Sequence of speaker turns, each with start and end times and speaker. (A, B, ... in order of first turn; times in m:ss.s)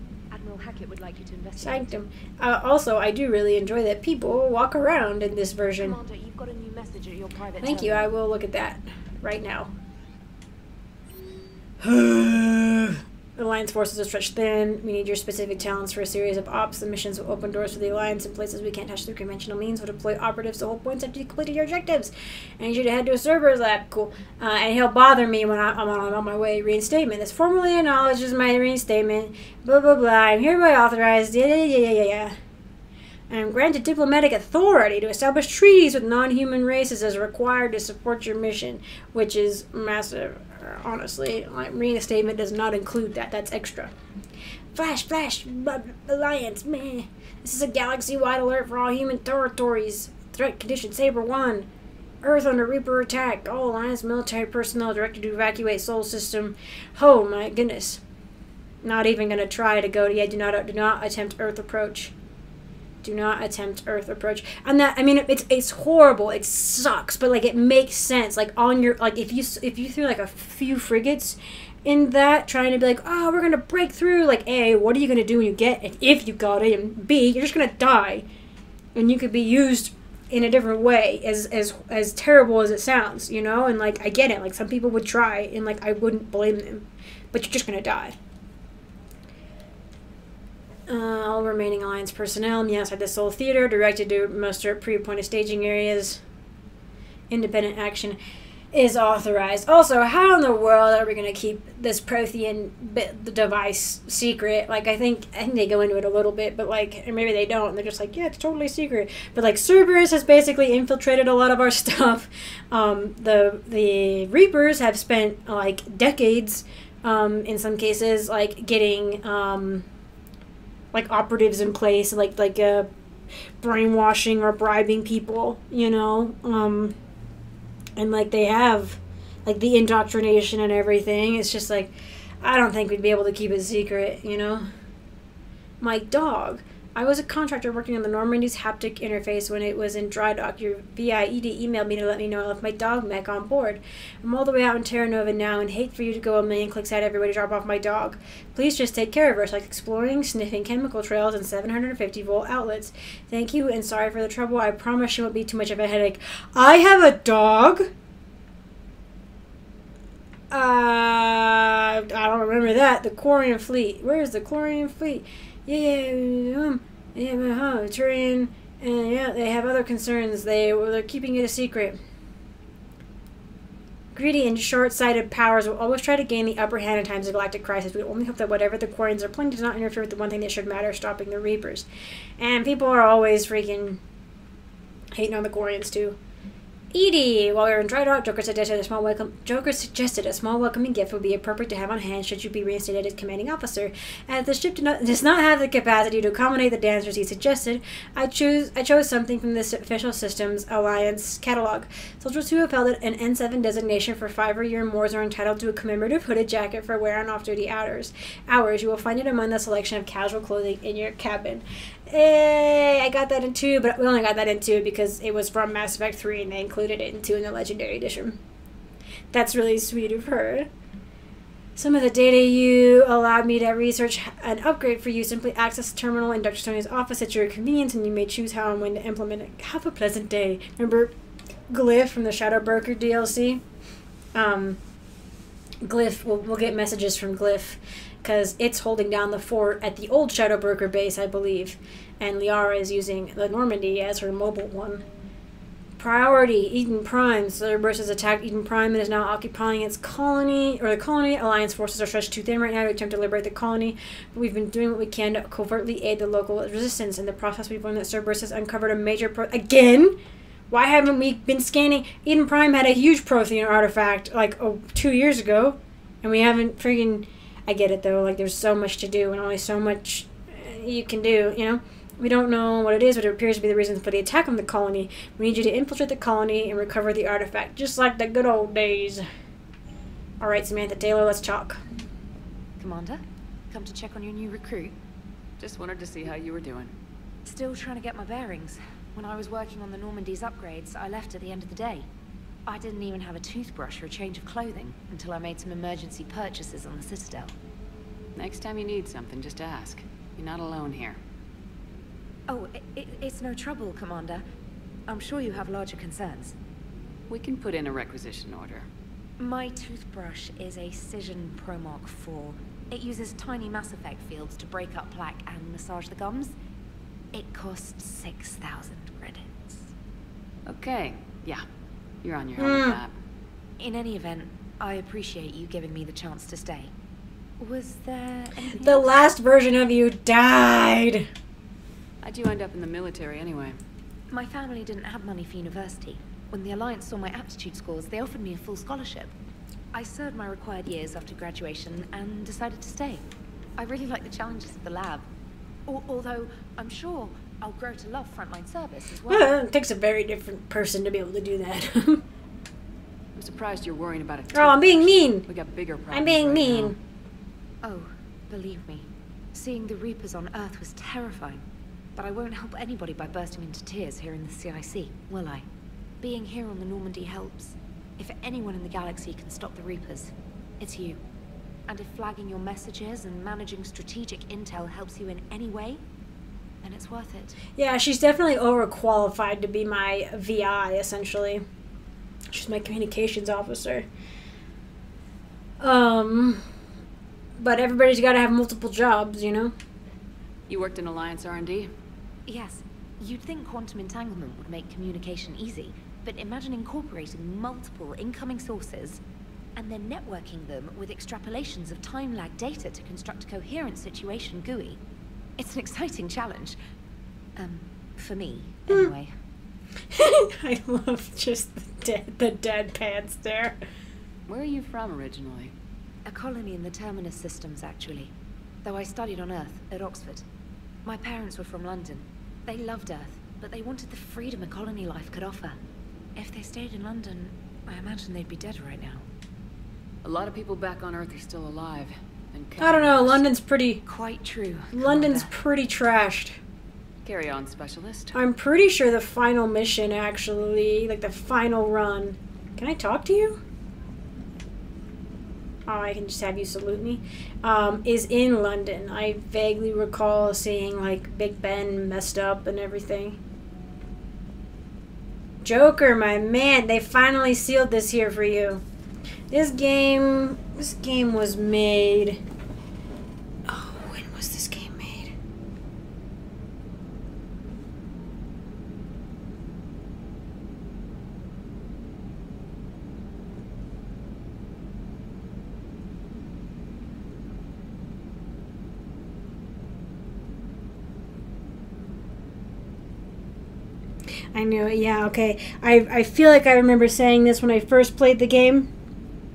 0:00.3-0:02.0 A
0:01.6-0:06.0 B
0:05.8-0:08.1 A
0:07.6-0:09.7 B
0:11.8-0:32.3 B
0:33.3-0:43.9 B
0:44.7-0:51.6 B
0:52.2-0:58.0 B
0:58.8-1:02.1 B
1:03.0-1:18.2 B
1:18.9-1:28.1 B
1:30.9-1:36.2 B
1:37.3-1:38.2 B
1:38.7-1:59.8 B
2:00.9-2:02.9 B
2:03.6-2:06.9 B
2:08.0-2:14.6 B
2:15.8-2:37.9 B
2:40.5-2:52.0 B
2:54.1-3:01.9 B
3:02.4-3:04.0 B
3:05.1-3:06.2 B
3:06.9-3:38.4 B
3:39.3-3:40.7 B
3:41.8-3:51.1 B
3:51.7-3:53.6 B
3:54.3-3:54.8 B
3:55.8-4:05.0 B
4:06.0-4:20.1 B
4:20.7-4:39.2 B
4:40.4-4:41.8 B
4:42.8-4:44.9 A
4:45.6-4:46.9 C
4:47.4-4:52.1 A
4:52.6-4:57.5 A
4:58.4-5:01.2 C
5:02.5-5:04.4 A
5:05.1-5:06.6 A
5:07.3-5:08.9 C
5:09.4-5:16.5 A
5:17.3-5:19.9 A
5:20.6-5:21.6 C
5:22.2-5:23.1 C
5:22.6-5:23.0 B
5:23.8-5:26.9 A
5:27.6-5:29.1 A
5:28.8-5:31.3 B
5:32.2-5:33.8 C
5:34.3-5:39.3 A
5:39.9-5:43.2 A
5:43.8-5:45.2 A
5:45.8-5:49.5 A
5:49.3-5:52.2 B
5:53.4-5:56.9 C
5:54.5-5:55.4 B
5:56.1-5:57.0 B
5:57.8-6:01.6 A
6:02.1-6:05.6 A
6:06.2-6:11.2 A
6:11.9-6:16.0 A
6:16.8-6:17.6 A
6:17.8-6:21.6 B
6:22.5-6:24.0 B
6:25.8-6:26.6 B
6:27.6-6:29.7 B
6:30.7-6:31.9 C
6:32.5-6:39.2 A
6:39.8-6:45.0 A
6:45.6-6:46.8 A
6:47.6-6:49.3 A
6:50.1-6:53.8 B
6:54.5-6:55.7 C
6:56.2-6:58.3 A
6:58.8-7:00.4 A
7:01.0-7:05.8 A
7:06.4-7:09.2 A
7:10.2-7:13.4 C
7:12.8-7:14.0 B
7:14.0-7:15.5 A
7:14.9-7:16.6 B
7:17.2-7:18.3 C
7:18.3-7:23.6 B
7:25.9-7:33.4 B
7:35.6-7:38.8 B
7:39.5-7:42.4 B
7:43.6-7:45.3 B
8:04.5-8:08.9 B